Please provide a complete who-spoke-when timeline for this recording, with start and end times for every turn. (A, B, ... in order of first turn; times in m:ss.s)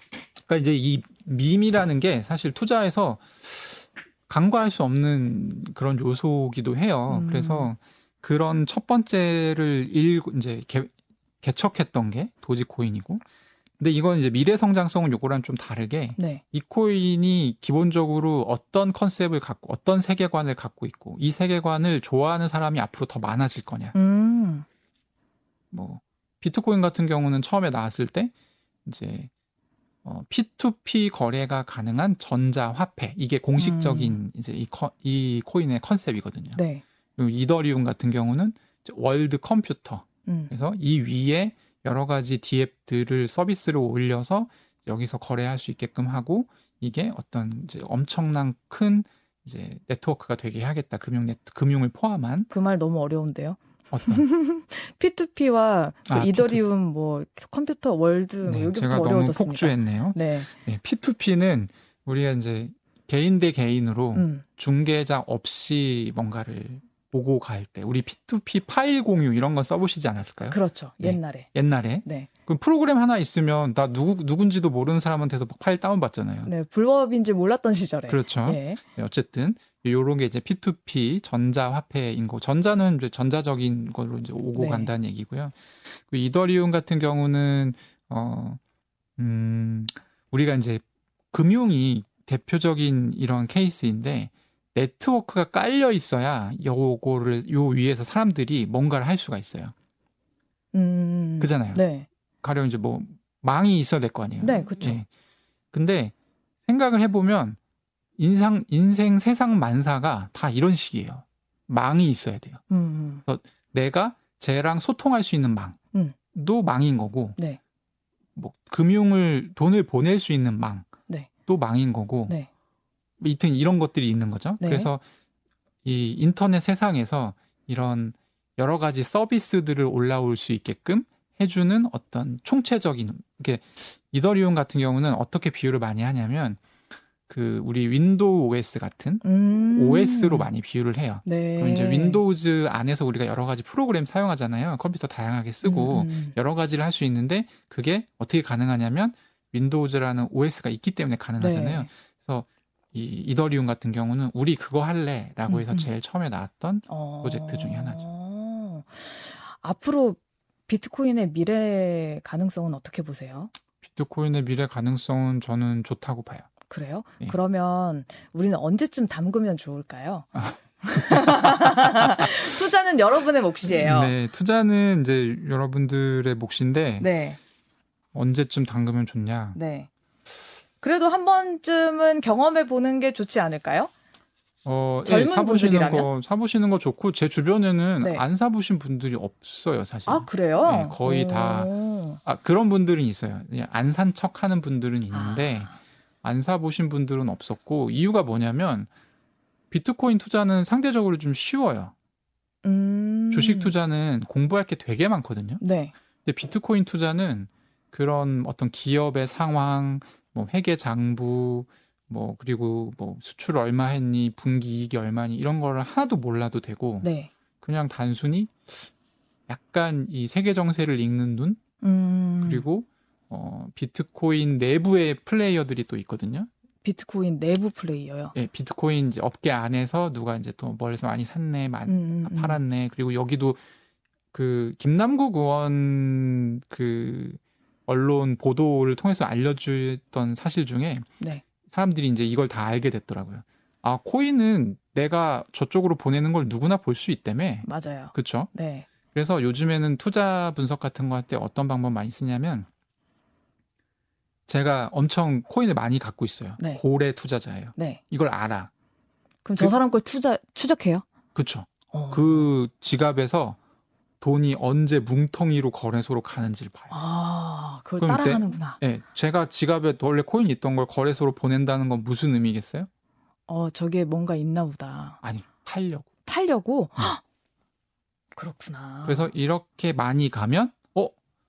0:00.3-0:13.2 A
0:07.1-0:07.7 B
0:13.8-0:24.0 A
0:16.2-0:16.4 B
0:23.9-0:24.6 B
0:25.7-0:28.3 A
0:28.8-0:29.3 A
0:30.0-0:36.6 A
0:33.6-0:34.2 B
0:36.5-0:36.8 B
0:37.2-0:52.5 A
0:40.2-0:40.5 B
0:52.5-1:00.5 B
0:53.9-0:54.2 A
0:56.1-0:56.6 A
0:58.4-1:16.5 A
1:04.1-1:04.4 B
1:10.5-1:11.5 B
1:12.0-1:12.3 B
1:16.4-1:18.8 B
1:18.1-1:28.6 A
1:24.5-1:24.9 B
1:29.2-1:39.7 A
1:40.7-1:42.1 B
1:41.4-1:41.8 A
1:42.4-1:45.1 A
1:44.4-1:45.0 B
1:45.7-1:46.1 A
1:46.6-1:47.6 A
1:48.2-1:52.6 A
1:52.7-1:53.2 B
1:53.3-1:55.8 A
1:56.3-1:57.4 A
1:58.3-2:00.9 A
2:01.5-2:02.3 A
2:03.2-2:05.0 A
2:04.6-2:04.9 B
2:05.8-2:16.6 A
2:17.3-2:38.0 A
2:19.2-2:20.5 B
2:21.2-2:22.2 B
2:25.6-2:26.3 B
2:31.4-2:31.9 B
2:35.5-2:35.9 B
2:36.9-2:43.5 B
2:43.8-2:46.5 A
2:46.7-2:50.3 B
2:50.3-2:52.5 A
2:50.8-2:54.1 B
2:53.6-2:57.1 A
2:57.0-2:57.4 B
2:58.1-2:59.6 A
2:59.5-2:59.9 B
3:00.8-3:03.9 B
3:04.6-3:11.7 A
3:05.0-3:06.1 B
3:10.1-3:12.2 B
3:12.2-3:18.9 A
3:15.1-3:15.8 B
3:19.7-3:21.9 A
3:22.6-3:23.7 B
3:23.3-3:25.6 A
3:25.6-3:25.9 B
3:26.2-3:37.1 A
3:37.0-3:37.3 B
3:37.6-3:38.9 A
3:39.5-3:41.6 A
3:41.8-3:42.6 B
3:42.4-3:46.5 A
3:46.8-3:48.3 B
3:48.3-3:53.6 A
3:51.9-3:52.6 B
3:54.3-4:01.1 A
4:01.7-4:08.5 A
4:07.6-4:08.9 B
4:09.1-4:12.7 A
4:14.5-4:18.7 A
4:17.8-4:18.0 B
4:19.4-4:21.0 B
4:21.3-4:23.6 A
4:21.9-4:22.5 B
4:24.2-4:26.9 A
4:26.9-4:28.8 B
4:28.0-4:32.9 A
4:33.5-4:35.2 B
4:35.2-4:36.1 A
4:36.2-4:37.2 B
4:38.3-4:39.3 B
4:39.0-4:41.1 A